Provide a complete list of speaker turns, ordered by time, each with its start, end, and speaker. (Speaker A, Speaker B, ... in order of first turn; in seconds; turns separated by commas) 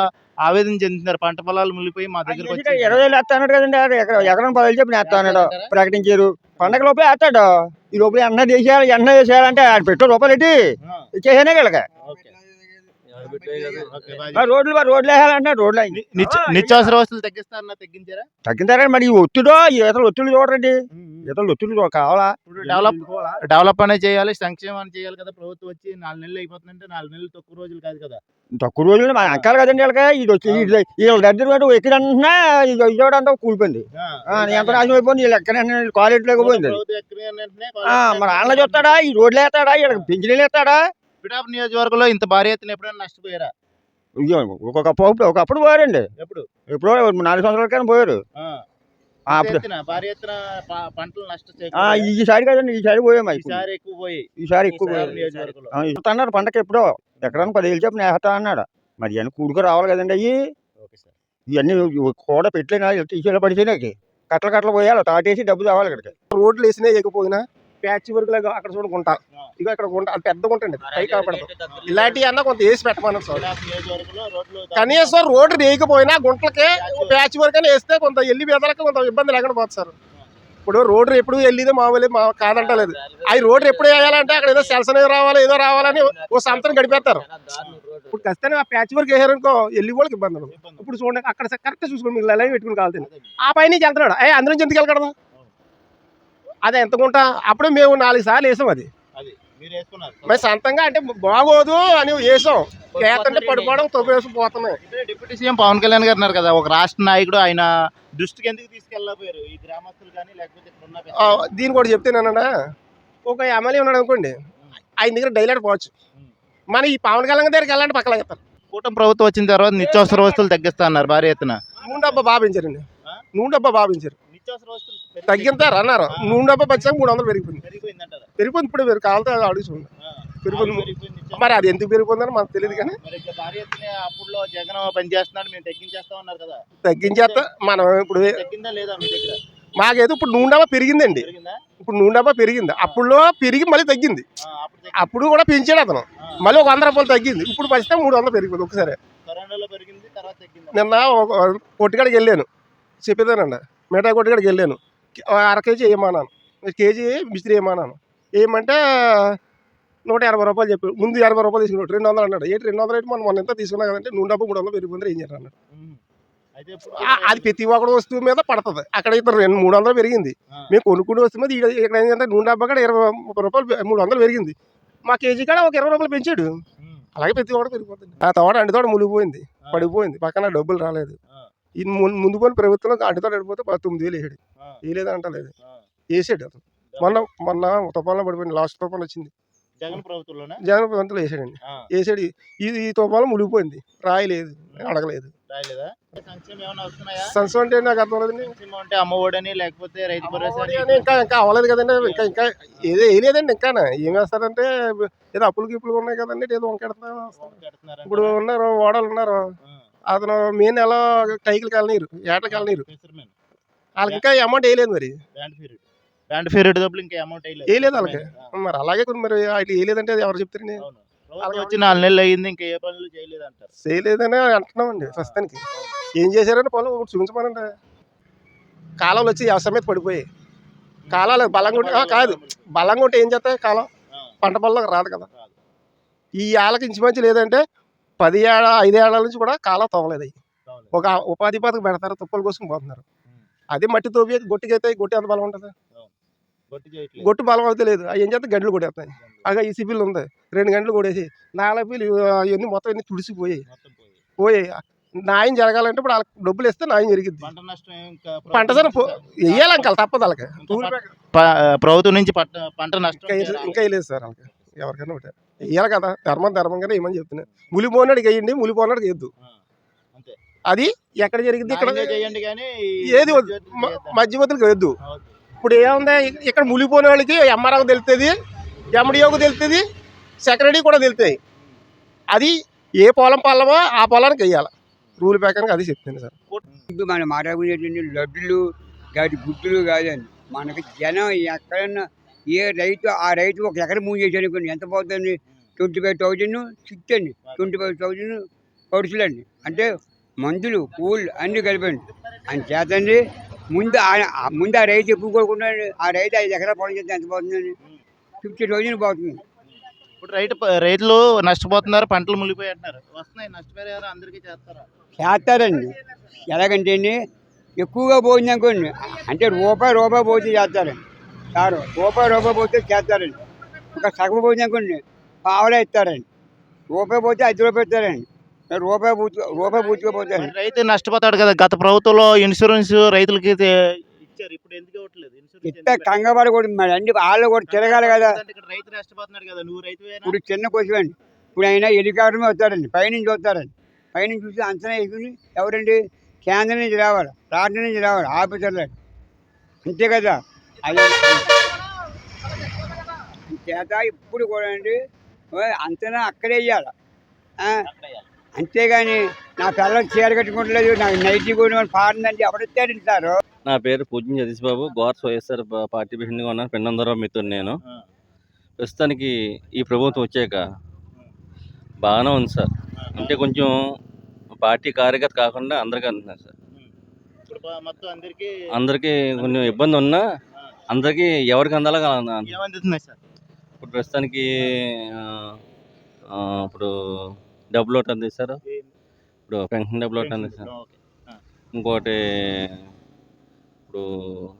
Speaker A: 0.4-3.0, Speaker B: 2.2-10.6, Speaker A: 5.0-5.7, Speaker B: 11.2-11.8, Speaker A: 12.0-12.3, Speaker C: 13.1-14.1, Speaker A: 13.8-14.5, Speaker B: 14.3-16.9, Speaker A: 15.9-18.3, Speaker B: 18.4-23.4, Speaker A: 20.9-21.3, Speaker A: 22.5-28.2, Speaker B: 28.6-36.8, Speaker A: 34.0-35.0, Speaker A: 36.4-39.0, Speaker B: 37.9-40.8, Speaker A: 41.2-43.5, Speaker B: 44.2-46.0, Speaker A: 46.2-46.5, Speaker B: 46.7-48.2, Speaker B: 49.3-49.6, Speaker A: 49.3-52.1, Speaker B: 51.7-53.6, Speaker A: 53.4-55.8, Speaker B: 54.4-55.2, Speaker B: 55.7-60.3, Speaker A: 60.8-61.1, Speaker B: 61.5-66.1, Speaker D: 66.3-73.5, Speaker A: 71.7-72.2, Speaker A: 73.3-75.3, Speaker D: 74.7-79.9, Speaker A: 76.8-77.2, Speaker D: 80.7-87.2, Speaker A: 87.5-87.9, Speaker D: 88.1-95.1, Speaker A: 90.5-90.9, Speaker A: 93.0-93.3, Speaker D: 96.7-98.9, Speaker A: 99.2-100.4, Speaker D: 100.2-104.8, Speaker A: 104.8-111.4, Speaker D: 111.2-112.5, Speaker D: 113.2-114.3, Speaker D: 115.0-115.9, Speaker D: 116.7-118.4, Speaker A: 118.7-122.1, Speaker D: 121.8-124.2, Speaker A: 124.3-126.8, Speaker D: 125.3-127.6, Speaker A: 127.6-128.3, Speaker D: 128.4-129.9, Speaker A: 130.0-131.7, Speaker D: 130.4-133.0, Speaker A: 132.6-137.4, Speaker D: 136.8-138.4, Speaker A: 138.2-139.4, Speaker D: 139.8-141.3, Speaker A: 141.2-141.6, Speaker D: 141.8-144.2, Speaker A: 144.4-145.1, Speaker D: 144.9-149.0, Speaker A: 149.2-150.9, Speaker D: 150.7-152.5, Speaker D: 153.0-159.4, Speaker D: 160.1-165.5, Speaker A: 165.7-166.0, Speaker A: 166.6-167.5, Speaker D: 167.0-174.5, Speaker D: 175.1-176.5, Speaker A: 176.8-177.1, Speaker D: 177.2-181.2, Speaker A: 179.6-179.9, Speaker D: 181.8-185.5, Speaker D: 186.1-189.3, Speaker A: 186.9-187.2, Speaker A: 189.8-190.6, Speaker D: 190.6-195.3, Speaker A: 195.5-197.3, Speaker D: 197.2-198.5, Speaker A: 198.4-201.2, Speaker D: 200.2-207.5, Speaker A: 202.0-203.0, Speaker A: 207.4-208.4, Speaker D: 208.1-209.4, Speaker D: 210.1-212.8, Speaker A: 212.5-213.3, Speaker D: 214.0-215.2, Speaker A: 215.3-218.5, Speaker D: 217.7-220.8, Speaker A: 220.8-223.7, Speaker D: 221.4-222.0, Speaker D: 223.8-225.6, Speaker A: 225.1-225.9, Speaker D: 226.2-227.7, Speaker D: 229.0-230.2, Speaker A: 231.1-232.7, Speaker D: 231.1-233.9, Speaker D: 234.4-235.3, Speaker D: 236.4-237.6, Speaker D: 238.2-240.3, Speaker D: 240.9-243.0, Speaker D: 243.7-245.7, Speaker A: 246.7-247.3, Speaker D: 247.2-253.6, Speaker A: 249.2-249.5, Speaker A: 253.7-254.2, Speaker D: 254.4-257.5, Speaker A: 257.4-259.9, Speaker D: 258.5-261.1, Speaker A: 260.6-263.8, Speaker D: 263.2-269.3, Speaker D: 270.7-272.2, Speaker A: 271.7-274.2, Speaker D: 273.1-274.9, Speaker A: 275.0-275.4, Speaker D: 275.6-278.3, Speaker D: 278.9-279.8, Speaker D: 280.4-281.4, Speaker D: 282.3-286.3, Speaker A: 286.5-286.8, Speaker E: 286.9-307.7, Speaker A: 297.4-297.9, Speaker E: 308.4-309.4, Speaker A: 309.7-314.9, Speaker E: 315.2-315.9, Speaker E: 316.4-317.2, Speaker E: 317.8-321.0, Speaker E: 321.5-323.4, Speaker E: 323.9-326.2, Speaker E: 326.9-330.5, Speaker A: 330.3-336.1, Speaker E: 335.6-338.4, Speaker A: 337.7-340.3, Speaker E: 340.2-348.9, Speaker E: 349.8-351.6, Speaker E: 353.4-355.0, Speaker E: 355.5-356.9, Speaker A: 357.9-358.2, Speaker E: 358.5-363.4, Speaker C: 363.6-367.8, Speaker C: 368.8-370.6, Speaker C: 372.0-373.7, Speaker A: 373.0-373.4, Speaker C: 374.6-376.5, Speaker A: 377.5-378.5, Speaker C: 378.8-380.2, Speaker A: 379.4-379.8, Speaker C: 380.9-382.5, Speaker A: 382.4-383.2, Speaker C: 383.8-384.4, Speaker C: 385.2-385.5, Speaker C: 386.3-386.9, Speaker C: 387.7-388.6, Speaker C: 389.5-390.7, Speaker A: 390.2-391.4, Speaker C: 391.8-392.2